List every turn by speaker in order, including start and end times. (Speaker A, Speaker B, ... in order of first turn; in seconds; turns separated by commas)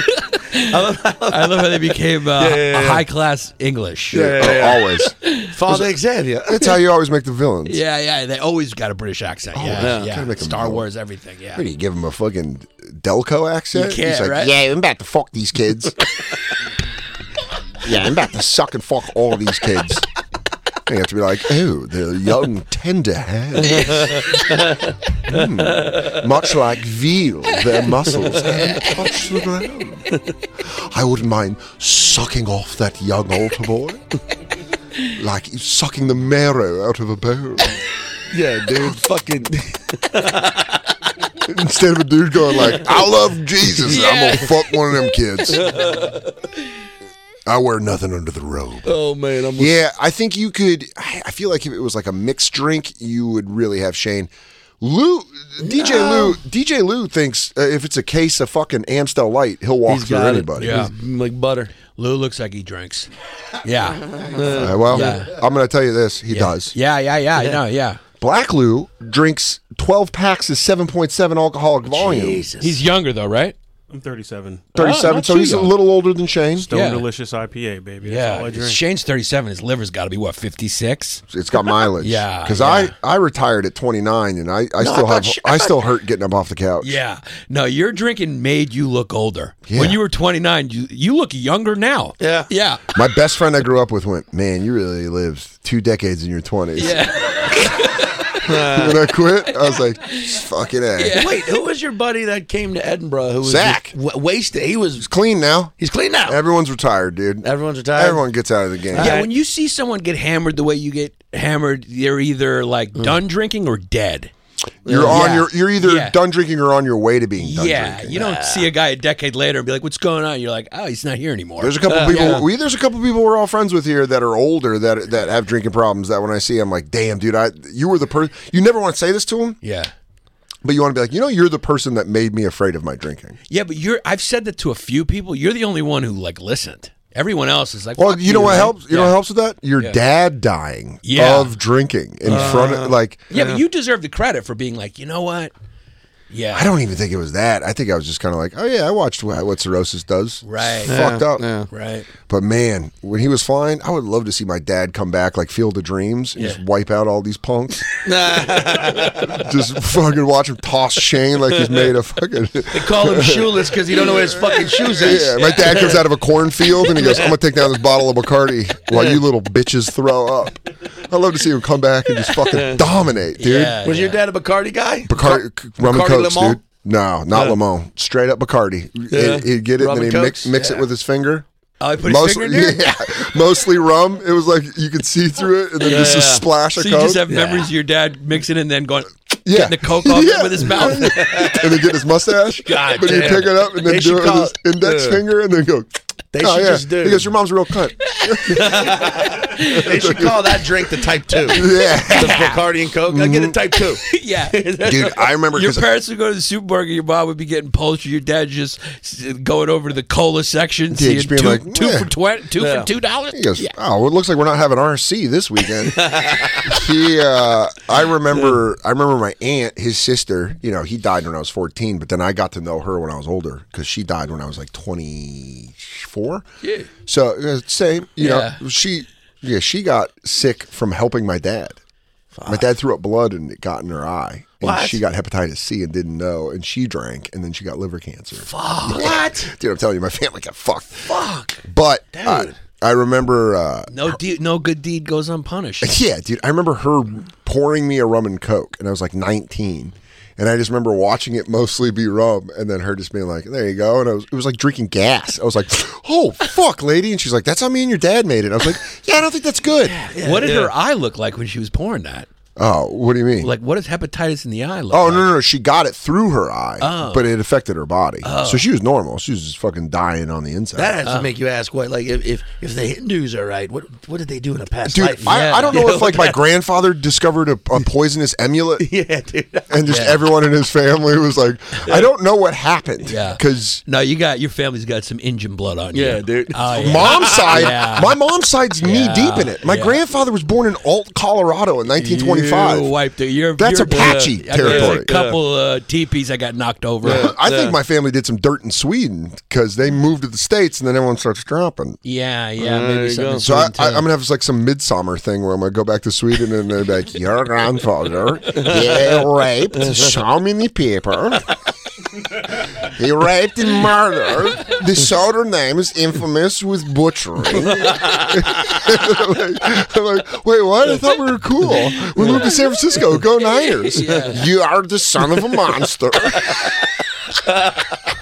Speaker A: 0.2-0.6, Speaker B: 0.6-3.0, Speaker A: 1.3-4.5, Speaker B: 4.1-4.8, Speaker C: 4.1-5.1, Speaker A: 5.2-5.5, Speaker B: 5.5-6.7, Speaker C: 5.7-5.9, Speaker C: 6.5-7.8, Speaker A: 7.7-11.6, Speaker C: 9.5-10.8, Speaker B: 9.8-10.1, Speaker C: 11.5-15.9, Speaker A: 13.7-14.6, Speaker C: 17.8-20.1, Speaker C: 20.9-24.4, Speaker B: 23.6-26.2, Speaker C: 25.3-30.1, Speaker B: 28.1-28.9, Speaker C: 30.6-34.0, Speaker C: 35.1-37.8, Speaker B: 38.3-41.0, Speaker C: 41.4-45.7, Speaker B: 42.6-43.0, Speaker A: 43.9-44.7, Speaker B: 45.5-46.3, Speaker C: 47.5-49.0, Speaker B: 48.9-49.8, Speaker C: 49.5-60.8, Speaker B: 55.6-56.4, Speaker B: 59.9-61.7, Speaker A: 60.6-60.9, Speaker A: 61.9-63.1, Speaker A: 63.6-64.1, Speaker B: 64.3-65.2, Speaker C: 64.5-66.7, Speaker A: 64.9-65.3, Speaker A: 66.3-68.0, Speaker C: 68.2-72.5, Speaker B: 71.9-72.8, Speaker A: 72.6-73.5, Speaker D: 73.9-74.7, Speaker A: 74.7-75.8, Speaker C: 74.7-76.7, Speaker D: 76.6-78.8, Speaker A: 76.7-77.1, Speaker A: 78.0-81.2, Speaker C: 81.3-87.0, Speaker A: 82.0-82.9, Speaker B: 84.8-85.8, Speaker A: 86.8-92.8, Speaker C: 89.7-90.0, Speaker B: 92.2-92.5, Speaker C: 92.9-97.5, Speaker A: 96.8-98.4, Speaker B: 98.5-99.0, Speaker C: 98.5-101.2, Speaker A: 99.7-100.3, Speaker A: 101.0-101.6, Speaker B: 101.2-105.1, Speaker C: 103.4-103.9, Speaker C: 105.0-109.2, Speaker B: 105.8-106.4, Speaker B: 107.4-108.2, Speaker B: 108.9-109.3, Speaker A: 108.9-114.3, Speaker B: 114.8-115.4, Speaker C: 114.8-118.2, Speaker A: 115.1-116.2, Speaker A: 117.4-122.4, Speaker B: 118.1-118.7, Speaker C: 121.6-129.6, Speaker B: 121.8-122.5, Speaker A: 129.6-129.9, Speaker C: 130.6-133.4, Speaker A: 133.5-139.2, Speaker C: 137.9-143.3, Speaker B: 138.4-138.6, Speaker A: 141.0-141.6, Speaker A: 142.3-142.7, Speaker B: 142.3-143.6, Speaker A: 143.3-145.5, Speaker A: 146.3-146.7, Speaker C: 146.5-151.4, Speaker A: 150.4-151.1, Speaker B: 150.8-151.7, Speaker A: 151.7-152.1, Speaker C: 152.3-158.0, Speaker B: 158.0-159.4, Speaker C: 158.8-173.8, Speaker B: 162.7-166.1, Speaker B: 166.7-167.3, Speaker B: 168.9-169.2, Speaker B: 172.4-172.8, Speaker A: 173.4-174.2, Speaker B: 173.8-176.6, Speaker C: 175.1-181.4, Speaker B: 179.1-180.8, Speaker A: 181.8-183.0, Speaker C: 182.0-187.2, Speaker A: 185.8-191.6, Speaker B: 185.9-186.4, Speaker B: 187.3-187.7, Speaker C: 189.4-200.7, Speaker B: 190.9-191.7, Speaker A: 192.7-193.4, Speaker B: 192.9-195.2, Speaker B: 196.3-197.3, Speaker A: 198.1-198.4, Speaker B: 198.5-205.1, Speaker A: 199.5-199.9, Speaker C: 201.5-203.5, Speaker A: 202.1-202.7, Speaker A: 204.0-204.7, Speaker C: 204.8-205.9, Speaker A: 205.5-213.7, Speaker C: 210.9-212.1, Speaker B: 212.6-212.9, Speaker C: 213.3-216.1, Speaker B: 215.9-216.8, Speaker C: 216.6-226.4, Speaker C: 227.1-231.8, Speaker A: 228.2-228.6, Speaker B: 232.3-232.6, Speaker C: 232.5-244.2, Speaker B: 234.6-235.0, Speaker A: 238.4-239.4, Speaker B: 238.9-239.5, Speaker A: 241.1-241.6, Speaker B: 242.1-242.6, Speaker A: 243.9-245.9, Speaker C: 245.8-259.9, Speaker B: 260.0-260.7, Speaker A: 260.1-262.3, Speaker C: 262.6-263.5, Speaker A: 263.4-265.3, Speaker C: 264.9-271.0, Speaker A: 266.8-267.3, Speaker A: 268.2-268.6, Speaker B: 270.8-276.4, Speaker A: 271.0-271.3, Speaker C: 274.9-278.9, Speaker A: 275.2-276.2, Speaker B: 278.8-279.8, Speaker C: 279.7-283.8, Speaker A: 279.9-280.2, Speaker A: 283.1-288.1, Speaker B: 285.9-287.8, Speaker C: 286.7-292.9, Speaker A: 288.8-290.0, Speaker B: 292.0-292.7, Speaker A: 292.6-297.3, Speaker C: 293.6-295.1, Speaker B: 293.9-295.4, Speaker B: 297.0-297.7, Speaker C: 297.0-302.0, Speaker A: 302.0-304.1, Speaker B: 302.6-303.4, Speaker C: 303.4-311.5, Speaker B: 308.5-310.1, Speaker C: 312.8-326.6, Speaker B: 317.5-318.8, Speaker A: 321.9-322.4, Speaker B: 322.2-322.5, Speaker B: 323.9-324.3, Speaker A: 323.9-324.4, Speaker B: 326.4-326.7, Speaker B: 327.5-327.9